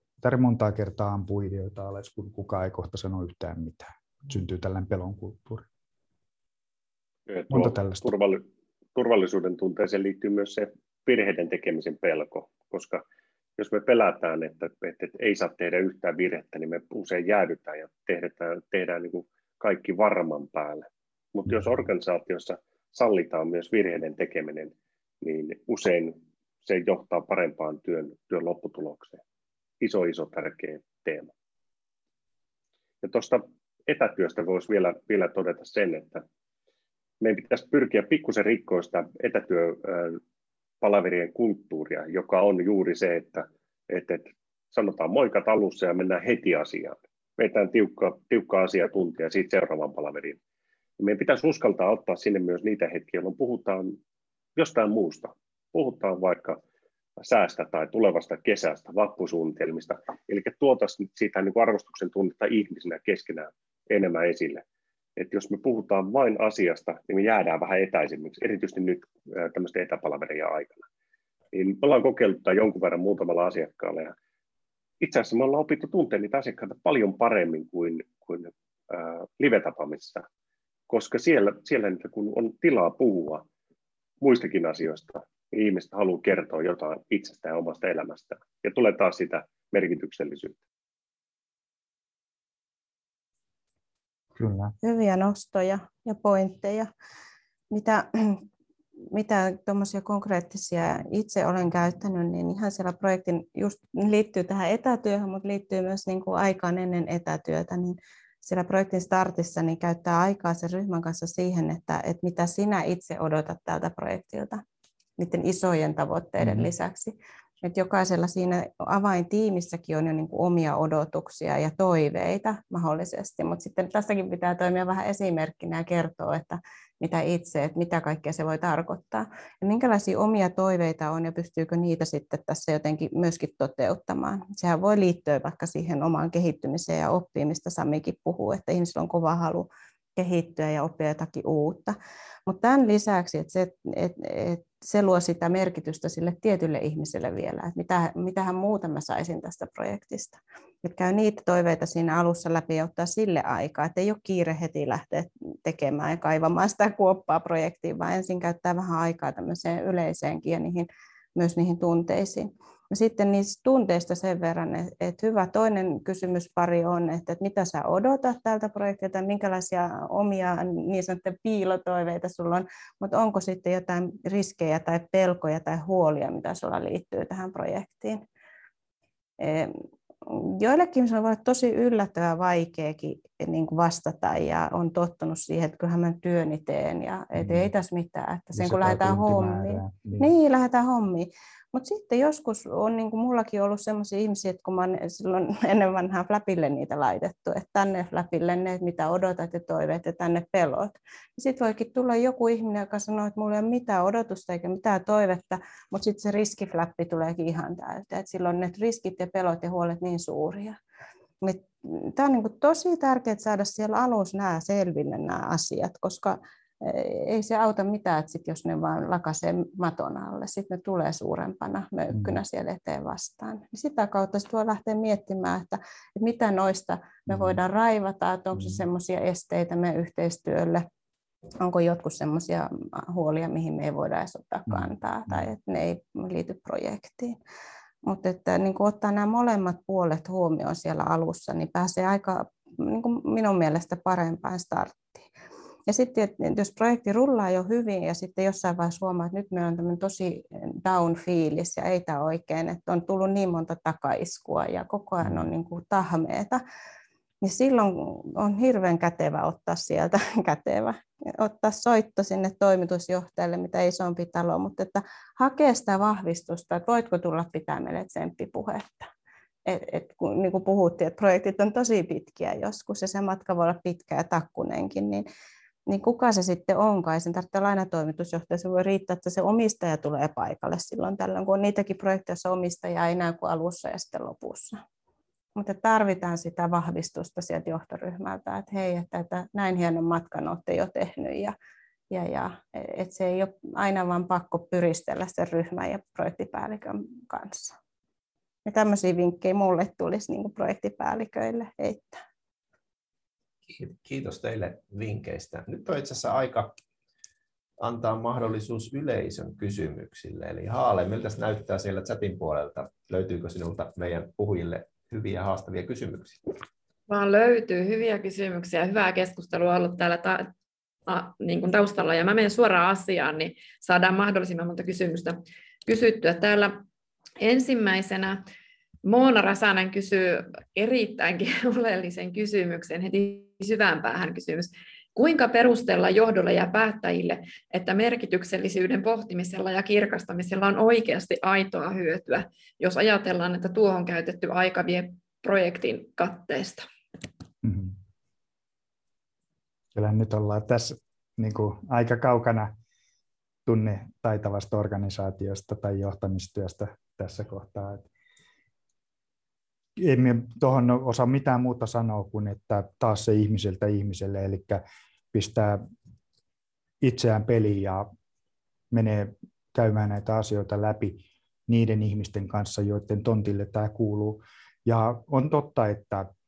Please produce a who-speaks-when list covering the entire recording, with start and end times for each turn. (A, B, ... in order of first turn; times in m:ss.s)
0:00.2-0:05.6 A
0:07.3-0:08.4 B
0:07.5-0:08.1 A
0:08.9-0:13.0 B
0:13.6-0:29.2 B
0:29.8-0:31.3 B
0:33.0-0:36.2 B
0:37.2-0:40.2 B
0:40.8-0:50.4 B
0:51.0-0:54.0 B
0:54.6-0:56.6 B
0:57.2-1:04.6 B
1:05.2-1:10.9 B
1:11.5-1:14.1 B
1:15.0-1:20.2 B
1:20.9-1:23.4 B
1:24.2-1:30.6 B
1:34.4-1:34.7 A
1:34.8-1:36.9 C
1:37.7-1:38.4 C
1:39.1-1:54.6 C
1:55.2-2:58.2 C
1:56.4-1:56.7 A
2:59.4-3:30.8 C
3:07.4-3:07.7 A
3:08.5-3:10.3 A
3:31.4-3:50.8 C
3:42.1-3:42.4 A
3:47.3-3:47.6 A
3:48.5-3:48.8 A
3:51.6-3:57.4 C
3:54.7-3:55.5 A
3:58.0-4:05.2 C
4:05.9-4:16.6 C
4:15.2-4:15.5 A
4:17.4-4:29.1 C
4:29.6-4:35.2 C
4:35.9-4:44.8 C
4:45.5-4:51.5 C
4:52.1-4:57.8 C
4:58.6-5:02.2 C
5:03.7-5:06.8 D
5:07.8-5:16.5 D
5:17.1-5:20.5 E
5:21.1-5:26.8 E
5:27.4-5:28.4 E
5:29.0-5:46.8 E
5:47.6-5:48.0 A
5:49.9-5:52.7 A
5:53.6-5:58.1 A
6:00.0-6:04.8 A
6:05.3-6:05.9 A
6:07.0-6:08.1 A
6:08.9-6:16.3 A